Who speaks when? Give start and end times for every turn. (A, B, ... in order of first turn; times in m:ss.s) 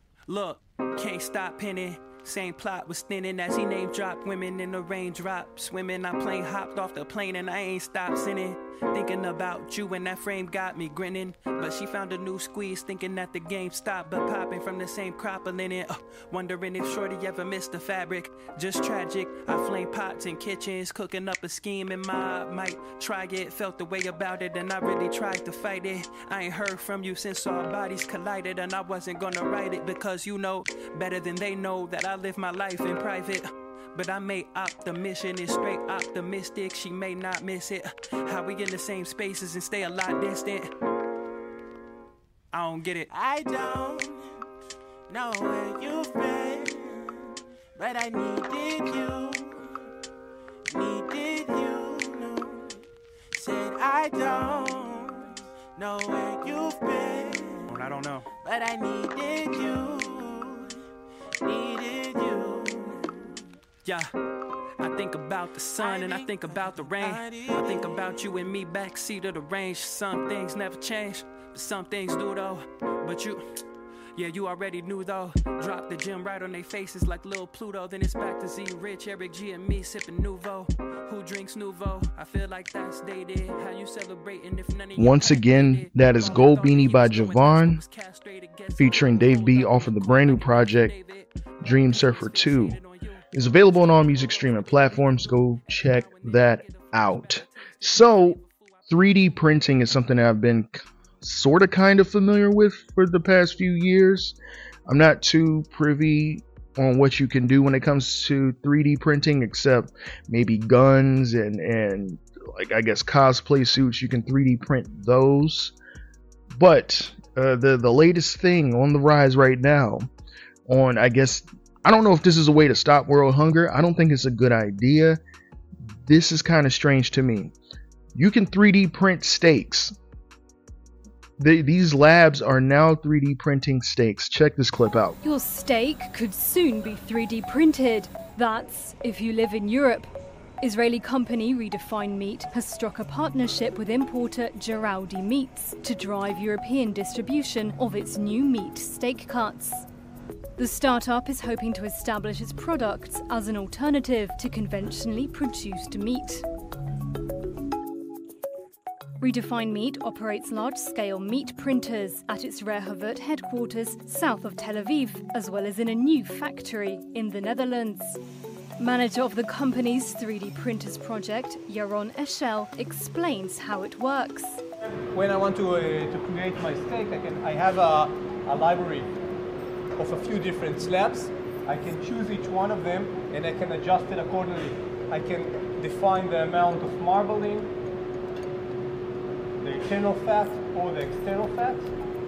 0:00.3-0:40.7 A
0:42.5-0:43.1 A
0:43.1-0:44.2 B
0:45.1-0:47.2 B
0:47.8-0:49.7 B
0:50.7-0:52.8 B
0:53.3-0:57.8 B
0:57.7-0:58.3 A
0:58.4-1:00.8 B
1:01.4-1:03.4 B
1:03.8-1:04.1 A
1:04.8-1:13.4 A
1:05.8-1:08.2 B
1:14.1-1:35.0 A
1:24.9-1:27.8 C
1:28.8-1:30.9 C
1:31.6-1:32.8 C
1:33.3-1:44.4 C
1:35.7-1:38.5 A
1:44.9-1:55.7 C
1:56.5-2:00.1 C
2:00.7-2:05.2 C
2:06.0-2:07.5 C
2:08.1-2:09.9 C
2:11.4-2:15.2 C
2:15.2-2:29.9 D
2:30.6-2:36.4 D
2:39.2-2:48.2 D
2:48.8-2:54.6 D
2:55.1-2:59.1 E
3:00.0-3:07.7 E
3:09.6-3:11.9 E